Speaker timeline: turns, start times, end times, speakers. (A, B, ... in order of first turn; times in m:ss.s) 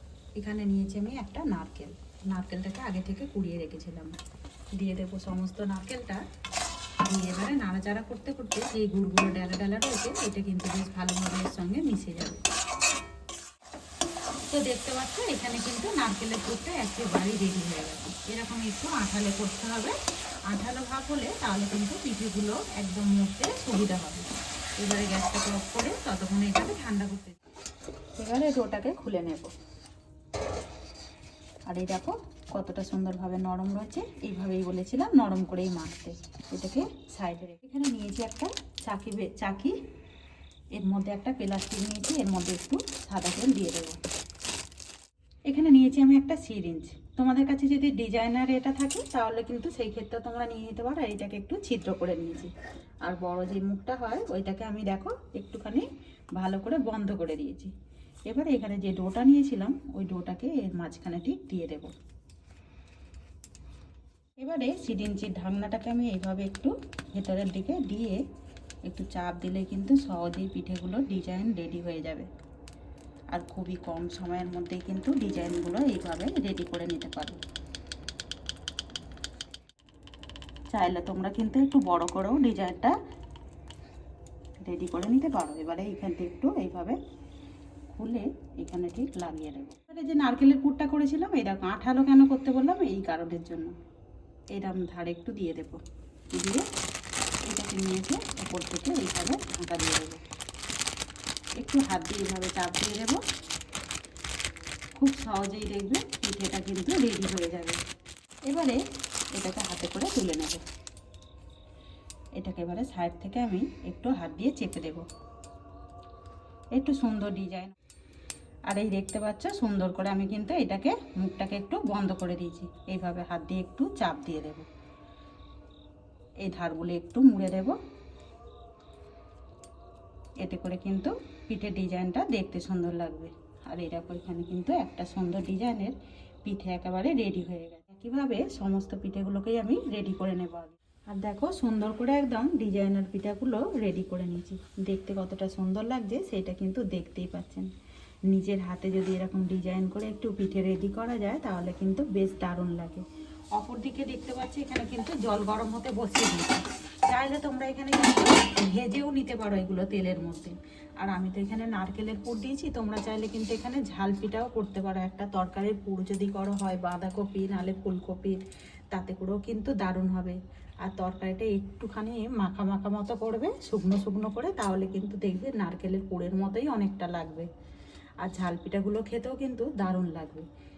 0:00.4-0:04.2 A
0:04.7-0:06.2 A
0:07.0-0:12.4 A
0:14.5-0:20.0 A
0:20.5-0:24.3 A
0:24.8-0:27.4 A
0:28.2-0:29.5 A
0:31.7-0:39.8 A
0:40.7-0:44.0 A
0:45.5-0:52.5 A
0:53.0-0:57.7 A
0:58.3-1:01.9 A
1:04.4-1:08.2 A
1:08.9-1:12.3 A
1:13.3-1:17.4 A
1:20.7-1:23.0 A
1:24.6-1:27.0 A
1:27.9-1:33.7 A
1:34.5-1:35.8 A
1:36.3-1:36.6 A
1:37.5-1:40.2 A
1:41.6-1:43.2 A
1:44.9-1:47.8 A
1:48.5-1:48.8 A
1:49.3-1:50.6 A
1:52.4-1:55.0 A
1:56.7-1:57.7 A
1:58.7-2:04.7 A
2:06.4-2:07.8 A
2:10.4-2:27.7 A
2:28.3-2:33.0 A
2:33.6-2:48.4 A
2:48.9-2:57.5 A
2:58.2-3:00.5 A